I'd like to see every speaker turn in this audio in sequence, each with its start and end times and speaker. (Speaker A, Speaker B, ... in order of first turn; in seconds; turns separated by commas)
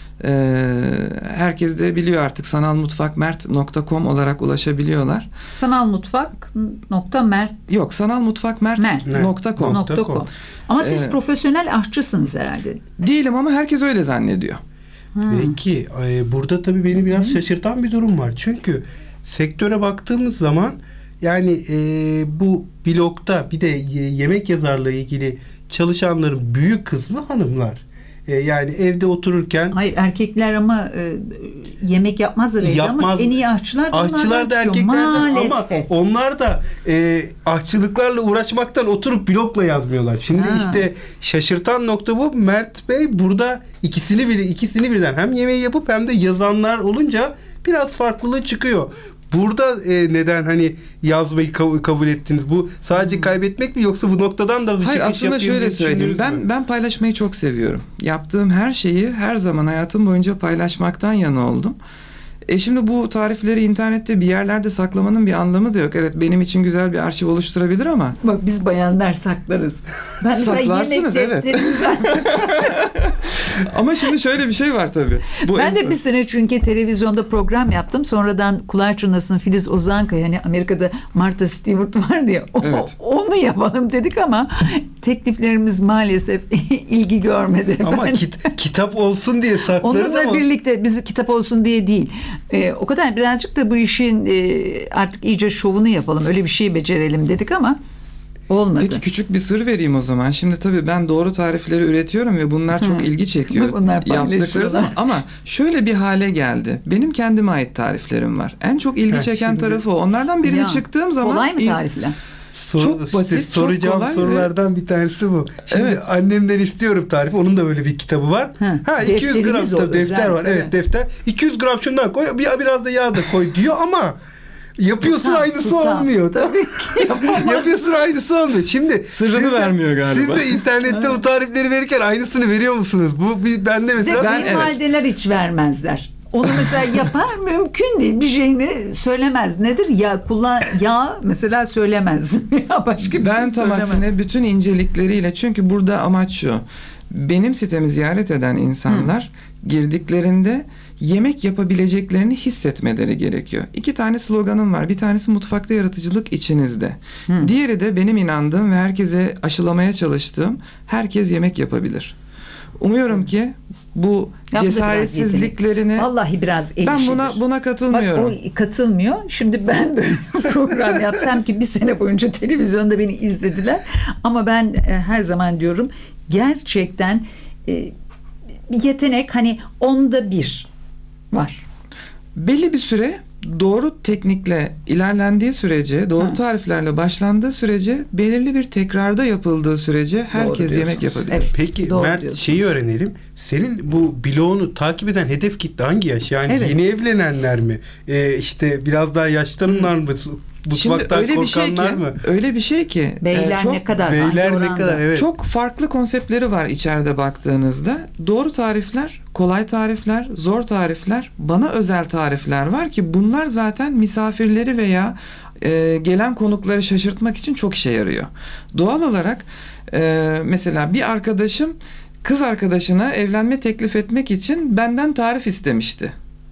Speaker A: 0.2-5.3, Speaker B: 5.5-7.6, Speaker A: 7.7-9.8, Speaker B: 8.8-12.8, Speaker C: 9.1-10.2, Speaker A: 10.8-11.2, Speaker A: 13.0-14.6, Speaker B: 15.1-15.6, Speaker C: 15.3-29.8, Speaker B: 17.1-17.4, Speaker B: 29.7-35.9, Speaker C: 32.6-33.4, Speaker C: 33.9-56.4, Speaker B: 40.3-40.9, Speaker B: 53.0-53.3, Speaker A: 54.8-61.8, Speaker A: 62.5-68.2, Speaker B: 68.2-72.8, Speaker A: 70.3-76.0, Speaker B: 75.5-88.3, Speaker A: 82.6-82.9, Speaker C: 87.8-90.5, Speaker B: 89.8-97.8, Speaker B: 98.5-99.0, Speaker A: 98.8-111.8, Speaker B: 102.8-105.0, Speaker C: 109.1-109.8, Speaker B: 110.4-112.2, Speaker C: 112.5-124.2, Speaker A: 112.8-114.5, Speaker A: 115.7-116.0, Speaker B: 118.6-120.7, Speaker C: 124.8-134.5, Speaker B: 125.0-127.8, Speaker A: 129.1-130.6, Speaker B: 134.0-144.0, Speaker A: 134.2-134.8, Speaker A: 143.1-162.2, Speaker B: 148.9-149.1, Speaker A: 162.8-166.1, Speaker B: 164.5-177.9, Speaker A: 166.8-168.4, Speaker B: 178.7-180.7, Speaker B: 181.3-181.6, Speaker A: 182.3-191.5, Speaker C: 190.5-202.2, Speaker B: 191.3-192.5, Speaker B: 196.5-196.8, Speaker A: 200.7-204.0, Speaker B: 203.2-205.1, Speaker C: 204.0-205.3, Speaker A: 205.1-226.1